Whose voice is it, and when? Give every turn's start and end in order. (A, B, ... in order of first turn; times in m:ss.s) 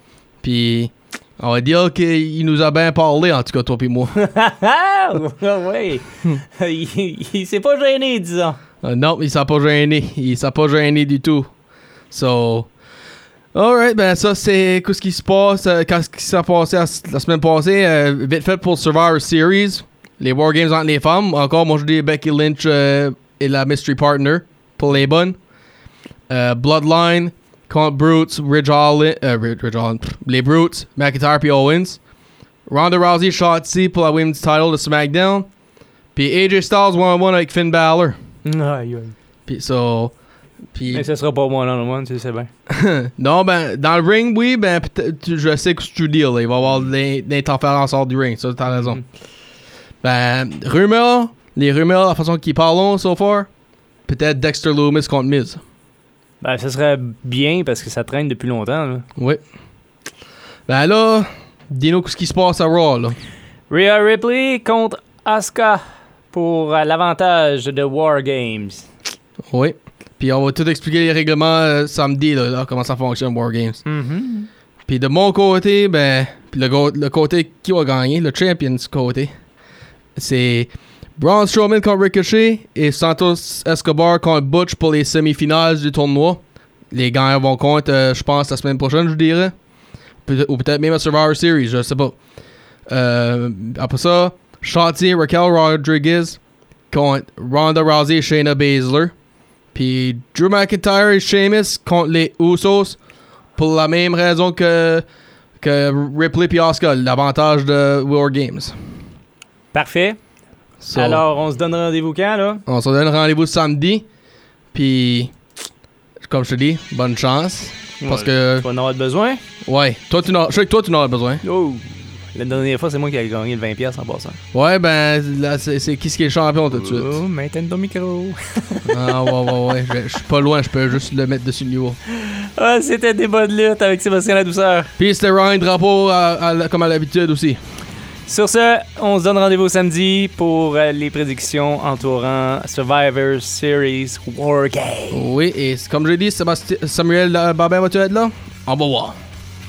0:00.4-0:04.1 A
0:04.2-0:08.6 B
0:08.8-0:11.5 A
0:12.1-0:12.7 A
0:13.5-0:25.4 A
0:26.3-0:32.0 A
0:32.7-0:35.5 A
0:36.1-0:38.2 A
0:38.4-0:39.1 B
0:39.5-0:40.1 A
0:40.7-0:41.1 A
0:40.9-0:42.5 B
0:42.7-0:49.0 A
0:50.0-0:53.5 A
0:54.1-0:55.6 A
0:56.4-0:59.0 B
0:59.2-0:59.4 A
1:00.7-1:03.2 A
1:03.7-1:05.8 B
1:06.3-1:08.9 B
1:09.5-1:13.8 A
1:13.9-1:14.5 B
1:14.9-1:19.3 A
1:20.2-1:29.5 A
1:30.2-1:32.2 A
1:32.9-1:36.4 A
1:36.9-1:39.1 A
1:39.7-1:43.0 A
1:43.6-1:45.0 A
1:45.6-1:48.8 A
1:49.7-1:50.2 B
1:50.8-1:51.2 A
1:50.9-1:52.6 B
1:52.7-1:54.0 A
1:54.7-1:55.3 A
1:56.2-1:58.6 A
1:58.0-1:59.4 B
1:59.6-2:01.4 A
2:01.4-2:04.4 B
2:04.5-2:07.2 A
2:06.7-2:09.1 B
2:08.9-2:12.0 A
2:12.1-2:14.9 B
2:15.0-2:17.6 A
2:18.3-2:25.2 B
2:25.1-2:29.2 A